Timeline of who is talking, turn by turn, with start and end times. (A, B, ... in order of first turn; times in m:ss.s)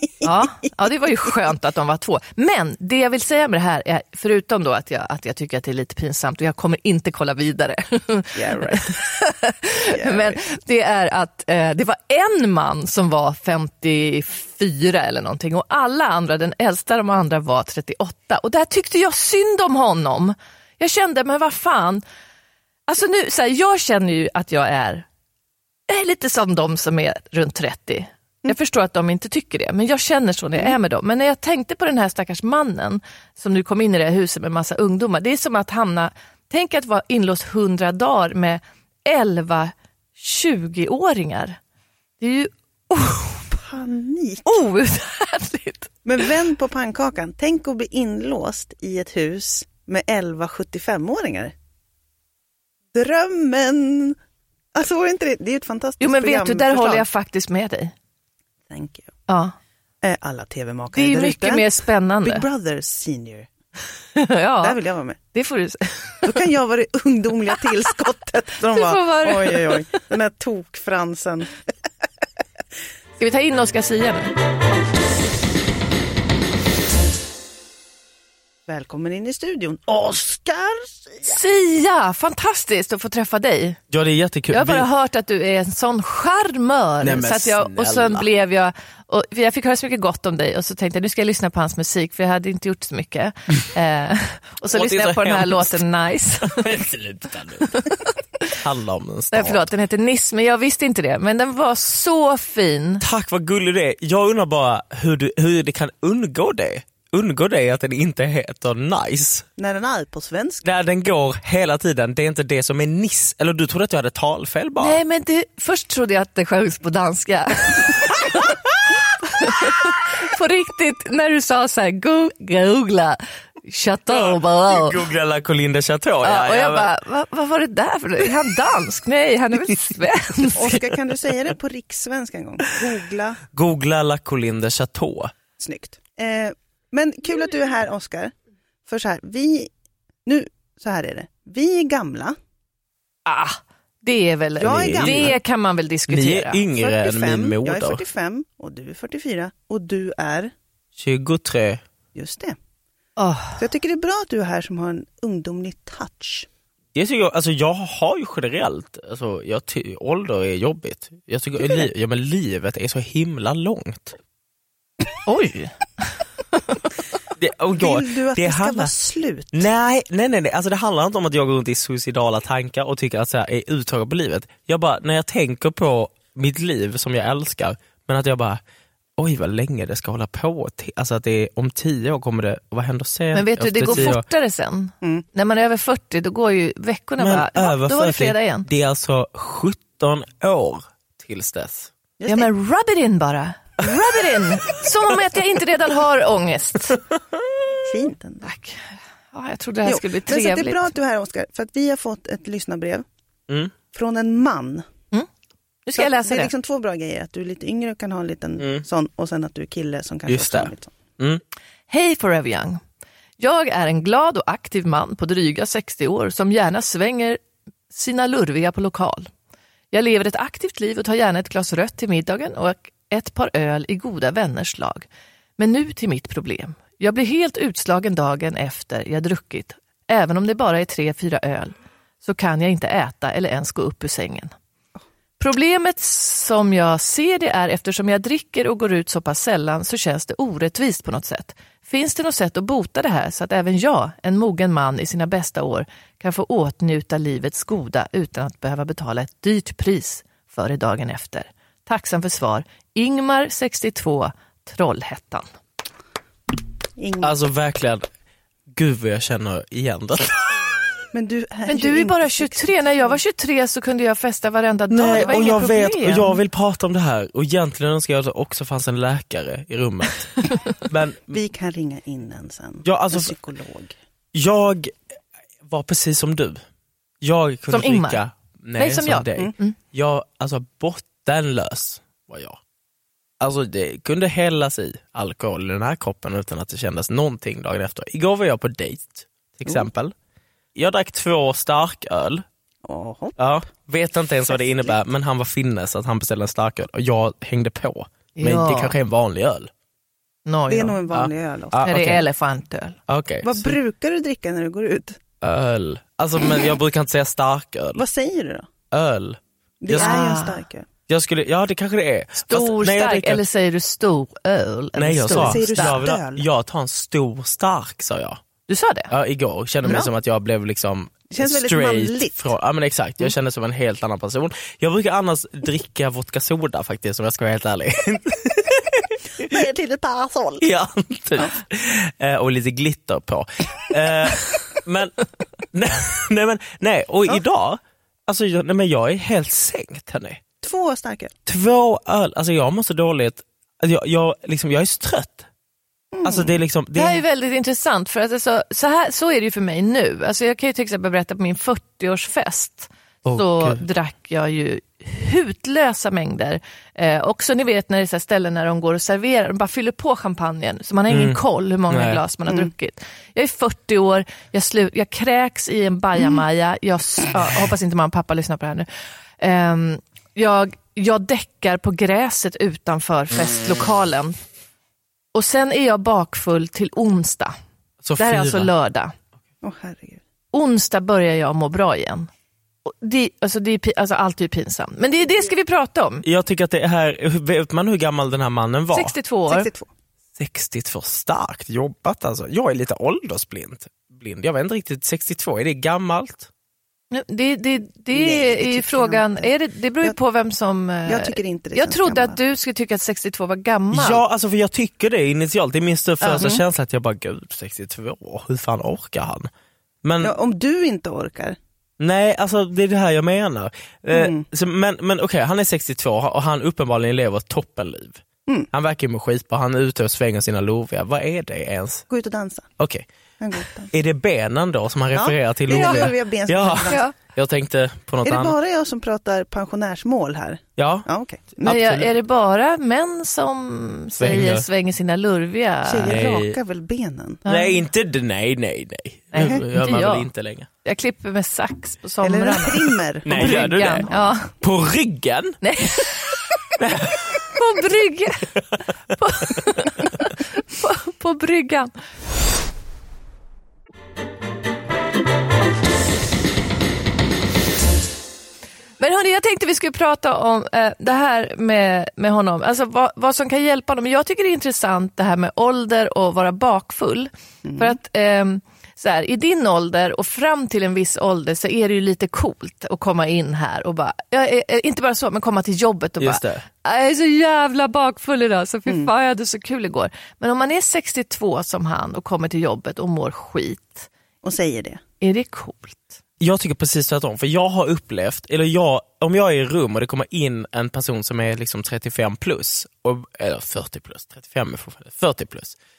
0:00.2-0:22.0 A
0:08.4-0:08.9 B
0:09.9-0:10.4 B
0:22.9-0:25.0 A
0:25.9-0:41.6 A
0:42.2-0:43.5 A
0:43.5-0:44.5 B
0:44.4-0:46.3 A
0:46.0-0:51.5 B
0:52.9-0:54.2 B
0:54.7-0:57.0 B
0:56.0-0:57.9 A
0:58.7-0:59.1 B
0:59.3-0:59.5 A
1:00.0-1:03.5 B
1:00.9-1:02.4 A
1:04.1-1:04.8 A
1:04.6-1:05.2 B
1:05.3-1:06.4 A
1:06.2-1:11.5 B
1:08.7-1:09.8 A
1:13.2-1:14.3 A
1:18.7-1:21.4 B
1:21.2-1:23.8 A
1:23.9-1:24.8 C
1:24.5-1:36.7 A
1:27.0-1:28.2 C
1:34.7-1:35.8 C
1:36.4-1:37.8 C
1:37.6-1:38.1 A
1:38.6-1:39.7 C
1:39.3-1:43.0 A
1:43.0-1:49.4 C
1:49.6-1:50.6 B
1:50.6-1:55.0 C
1:54.8-1:58.5 A
1:59.2-2:05.0 A
2:04.1-2:06.9 C
2:06.2-2:10.8 A
2:10.5-2:13.4 B
2:13.5-2:15.3 C
2:15.6-2:18.3 B
2:18.8-2:19.7 B
2:20.2-2:22.4 B
2:23.2-2:26.6 A
2:24.6-2:25.3 B
2:24.7-2:25.4 C
2:26.1-2:28.0 C
2:26.8-2:30.5 B
2:31.0-2:31.8 C
2:32.1-2:32.6 B
2:33.2-2:33.6 A
2:33.6-2:36.5 B
2:36.9-2:44.2 C
2:45.2-2:45.8 A
2:47.4-2:48.9 C
2:47.8-2:49.6 B
2:49.5-2:58.6 C
2:59.2-3:04.2 C
3:03.3-3:08.7 A
3:07.2-3:11.9 C
3:12.2-3:12.5 B
3:12.3-3:17.0 A
3:17.8-3:18.5 B
3:18.4-3:20.9 A
3:19.8-3:23.0 B
3:23.5-3:23.7 C
3:23.9-3:24.8 B
3:25.8-3:26.5 A
3:26.0-3:30.9 B
3:28.6-3:28.8 C
3:30.3-3:31.4 C
3:31.9-3:32.8 A
3:33.4-3:37.4 A
3:37.9-3:39.3 A
3:39.9-3:45.1 A
3:45.6-3:54.5 A
3:55.4-4:15.4 A
4:17.0-4:17.3 B
4:17.2-4:18.1 C
4:18.7-4:20.7 C
4:21.1-4:23.1 B
4:21.7-4:26.4 A
4:24.9-4:31.4 C
4:31.3-4:33.9 B
4:32.8-4:33.3 C
4:34.3-4:35.0 C
4:35.6-4:36.6 C
4:37.2-4:42.6 C
4:37.7-4:38.2 A
4:38.8-4:39.7 A
4:43.4-4:50.1 C
4:50.7-4:52.4 C
4:52.8-4:53.4 B
4:53.4-4:59.7 C
4:54.5-4:54.9 B
4:58.4-4:58.9 A
5:00.4-5:01.0 A
5:00.7-5:01.8 B
5:01.1-5:02.2 C
5:01.8-5:03.0 A
5:03.1-5:03.8 C
5:03.4-5:05.2 B
5:05.4-5:08.0 C
5:08.0-5:08.7 B
5:08.9-5:10.2 C
5:09.8-5:10.9 B
5:09.9-5:10.6 A
5:11.1-5:13.4 C
5:12.4-5:16.0 A
5:15.0-5:18.4 C
5:15.3-5:16.4 B
5:18.7-5:19.1 A
5:19.1-5:29.6 C
5:19.8-5:20.1 B
5:21.3-5:22.5 B
5:29.4-5:30.7 B
5:30.6-5:35.2 C
5:35.7-5:40.4 C
5:40.6-5:41.3 B
5:41.4-5:45.5 C
5:46.1-5:46.6 B
5:46.2-5:47.2 C
5:46.9-6:08.9 A
5:53.2-5:53.8 C
6:01.1-6:02.2 C
6:09.4-6:14.4 A
6:15.3-6:17.5 A
6:18.0-6:18.7 C
6:18.2-6:19.1 A
6:19.6-6:20.2 B
6:20.5-6:22.3 A
6:22.8-6:26.2 A
6:26.2-6:29.1 C
6:28.9-6:29.7 A
6:29.5-6:29.9 B
6:30.4-6:36.5 C
6:37.1-6:44.2 A
6:38.1-6:39.5 B
6:41.0-6:42.4 B
6:43.9-6:49.5 C
6:46.2-6:46.5 A
6:50.0-6:50.3 C
6:50.2-6:51.6 B
6:52.0-7:02.0 C
6:54.1-6:54.4 B
7:02.1-7:02.7 B
7:02.8-7:03.0 C
7:03.4-7:03.9 B
7:03.9-7:08.6 C
7:05.1-7:07.0 B
7:05.8-7:06.0 A
7:06.9-7:07.1 A
7:08.2-7:11.8 B
7:10.8-7:12.1 C
7:11.6-7:16.2 A
7:14.2-7:14.6 C
7:15.8-7:17.4 B
7:16.0-7:16.6 C
7:17.4-7:17.8 A
7:17.4-7:20.7 C
7:19.3-7:20.3 A
7:20.8-7:24.5 A
7:22.2-7:24.3 B
7:23.2-7:24.1 C
7:24.6-7:25.6 C
7:25.6-7:26.4 A
7:26.8-7:27.5 C
7:27.5-7:28.5 A
7:29.2-7:31.9 A
7:39.0-8:04.1 A
7:47.6-7:48.0 B
7:56.2-7:56.6 C
8:04.4-8:05.0 B
8:05.2-8:06.1 A
8:06.4-8:15.8 C